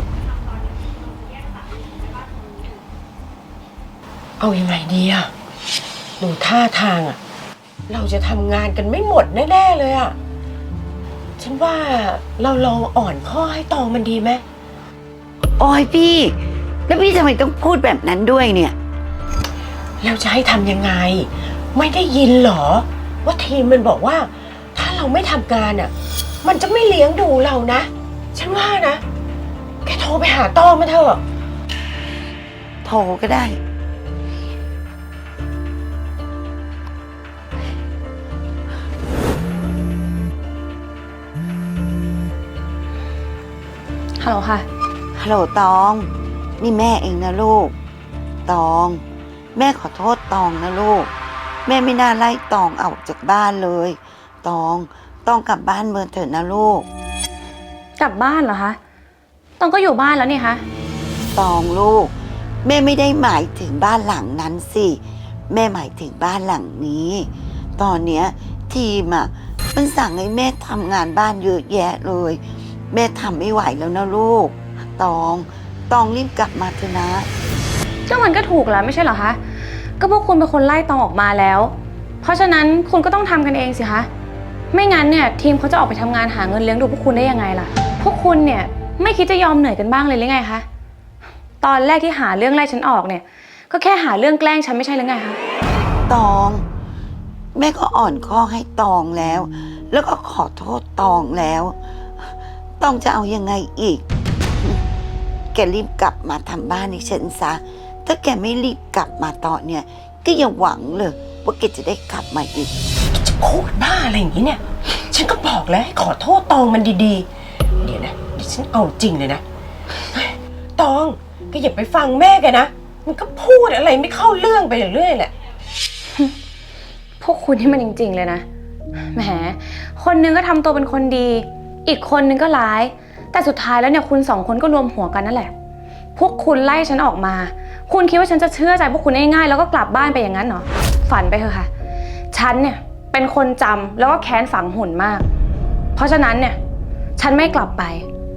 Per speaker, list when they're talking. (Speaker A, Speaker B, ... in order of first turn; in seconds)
Speaker A: 4.4-5.3, 6.2-7.2, 7.9-10.2, 11.4-14.4, 20.0-25.9, 26.4-29.0, 29.8-31.2, 113.1-117.3, 117.8-119.4, 120.1-125.3
Speaker B: 15.6-16.4, 16.9-18.7, 32.8-33.6, 45.1-47.7, 48.5-49.0, 49.5-51.1, 51.6-56.9, 61.3-62.1, 62.6-77.3, 96.1-96.6, 97.5-101.8, 102.8-104.0, 105.5-112.7
Speaker C: 44.2-44.7, 58.0-58.8, 59.6-60.6, 78.1-79.4, 80.0-84.1, 84.7-90.7, 91.6-95.4, 127.2-128.4, 129.1-135.5, 136.2-141.7, 142.3-145.2, 145.9-146.6, 147.2-148.1